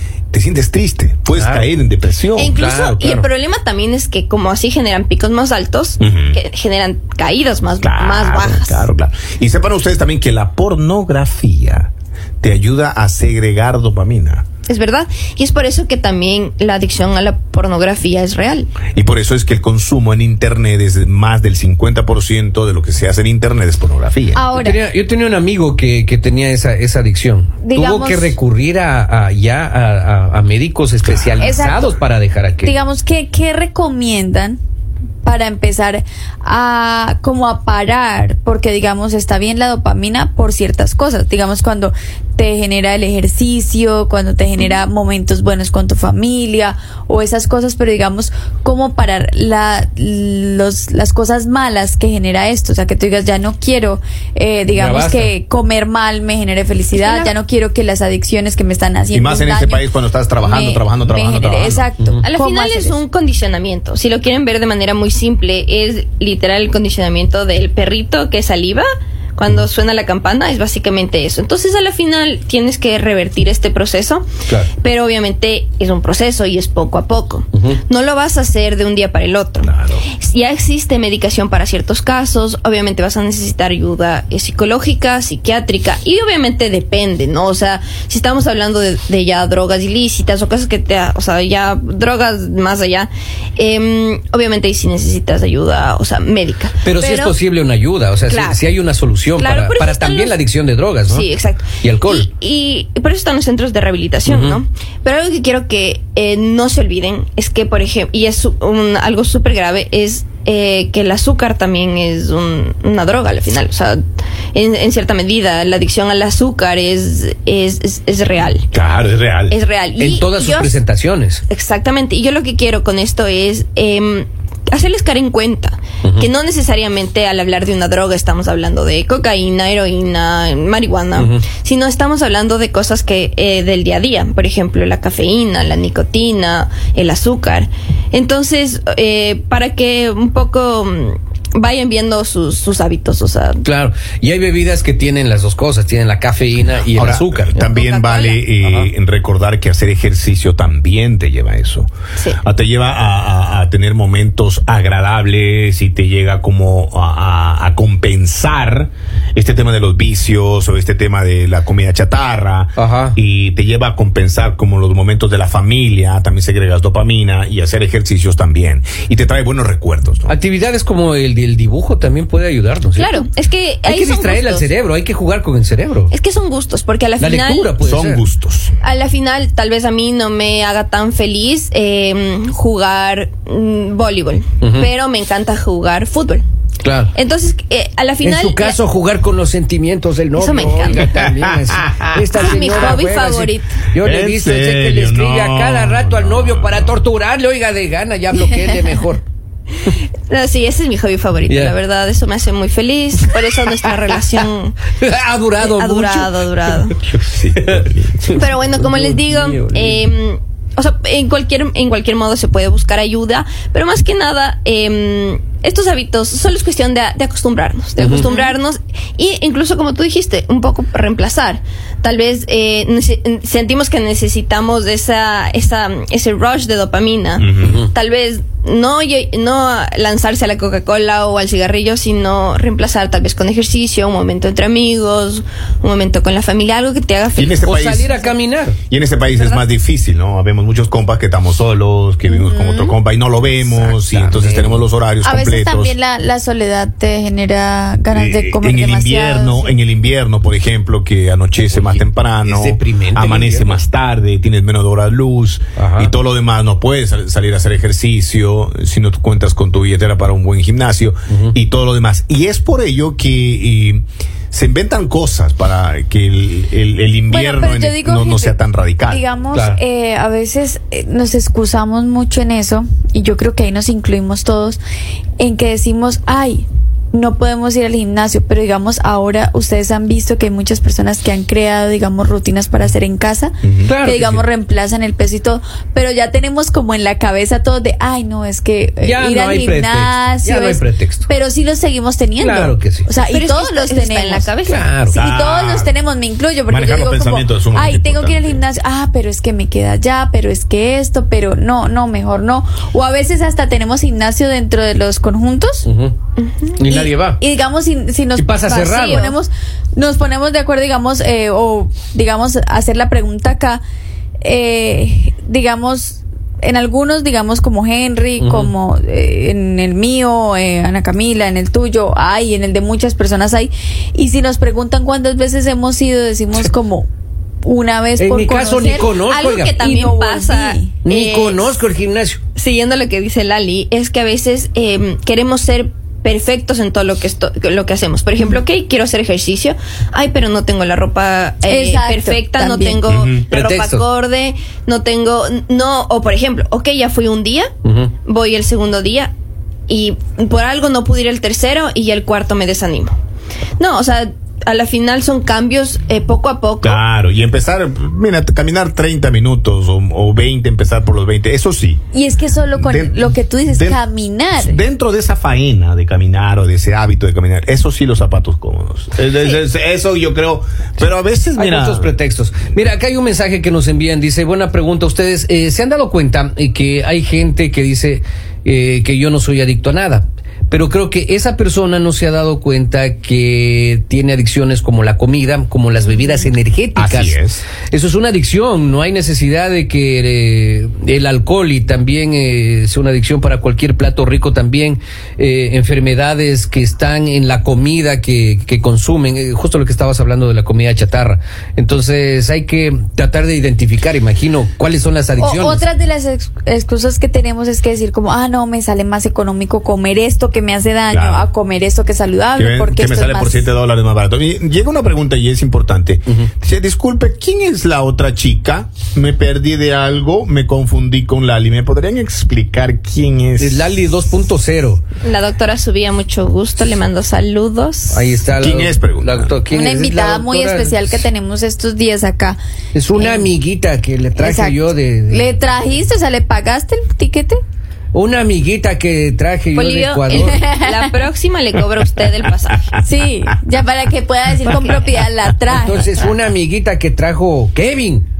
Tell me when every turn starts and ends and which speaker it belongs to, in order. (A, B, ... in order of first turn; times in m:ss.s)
0:00.3-0:02.6 A
0:01.3-0:01.7 B
0:02.4-0:08.9 C
0:02.5-0:03.3 B
0:06.0-0:06.4 A
0:07.8-0:11.9 A
0:12.4-0:14.4 A
0:14.7-0:18.7 C
0:18.9-0:24.5 A
0:24.3-0:24.8 D
0:24.5-0:32.8 B
0:27.6-0:28.4 D
0:31.4-0:32.0 D
0:32.6-0:34.6 D
0:35.2-1:03.0 D
0:54.7-0:55.3 B
0:56.9-0:57.4 C
0:59.1-1:01.9 A
1:02.2-1:36.8 C
1:19.6-1:20.1 A
1:36.8-1:42.3 B
1:37.0-1:37.4 D
1:38.3-1:38.6 C
1:39.4-1:40.4 C
1:41.1-1:54.0 C
1:44.3-1:44.6 B
1:54.5-1:58.7 C
1:58.7-1:59.6 A
1:59.5-2:00.7 C
2:00.0-2:01.4 B
2:01.5-2:23.6 C
2:11.2-2:11.4 B
2:23.6-2:27.6 B
2:26.9-2:31.9 A
2:27.6-2:28.5 C
2:28.6-2:28.9 B
2:32.4-2:50.4 A
2:42.8-2:43.2 B
2:50.3-2:53.2 B
2:53.0-2:54.7 C
2:53.8-2:56.1 B
2:56.1-2:57.7 C
2:57.2-2:58.2 B
2:57.8-2:58.8 A
2:58.8-3:06.4 C
3:04.6-3:04.9 B
3:06.8-3:07.1 B
3:07.1-3:08.8 C
3:08.2-3:19.2 B
3:10.4-3:11.1 C
3:11.9-3:12.2 A
3:12.4-3:13.8 C
3:14.0-3:17.0 A
3:20.3-3:24.8 C
3:21.5-3:21.7 B
3:25.0-3:26.8 B
3:25.6-3:27.0 C
3:27.0-3:28.4 A
3:27.6-3:30.0 B
3:28.4-3:57.7 C
3:38.0-3:38.4 B
3:47.4-3:47.8 A
3:57.4-3:58.1 A
3:57.6-3:58.8 B
3:58.9-4:06.0 A
3:59.3-3:59.6 D
4:02.3-4:03.0 D
4:03.6-4:04.8 B
4:05.2-4:09.8 D
4:08.1-4:29.2 A
4:11.7-4:13.8 B
4:15.8-4:16.1 B
4:27.3-4:34.8 D
4:29.5-4:29.8 B
4:35.4-4:54.5 D
4:43.6-4:44.0 A
4:43.9-4:44.4 B
4:49.0-4:51.3 B
4:52.4-4:53.1 B
4:53.3-4:54.9 C
4:54.7-4:55.2 B
4:55.1-5:05.9 D
4:55.1-4:56.0 A
4:56.7-4:58.6 A
5:05.9-5:06.1 B
5:06.4-5:06.8 C
5:06.8-5:07.4 B
5:06.9-5:13.8 D
5:08.4-5:09.3 B
5:08.8-5:09.4 C
5:14.4-5:27.1 D
5:18.4-5:18.7 B
5:27.6-5:29.1 D
5:28.2-5:29.8 B
5:29.0-5:31.8 C
5:29.8-5:30.9 D
5:31.0-5:32.4 B
5:32.6-5:47.7 C
5:41.7-5:43.0 D
5:43.1-5:43.4 A
5:43.5-5:44.1 B
5:47.8-5:48.1 B
5:48.2-5:49.3 C
5:49.9-5:53.2 C
5:53.8-5:57.0 C
5:56.8-6:02.0 A
6:02.1-6:04.8 D
6:02.7-6:04.0 A
6:04.6-6:12.1 A
6:11.6-6:45.8 B
6:27.0-6:27.6 A
6:45.4-6:53.7 D
6:51.1-6:51.5 A
6:52.6-7:03.9 A
7:03.6-7:05.0 B
7:05.2-7:08.4 C
7:08.1-7:11.3 B
7:08.6-7:09.6 A
7:09.7-7:12.6 D
7:12.9-7:15.6 B
7:13.1-7:13.5 D
7:14.4-7:17.6 D
7:18.1-7:20.6 B
7:19.7-7:22.9 C
7:20.3-7:21.1 D
7:23.0-7:26.2 D
7:24.6-7:25.1 C
7:25.7-7:28.3 B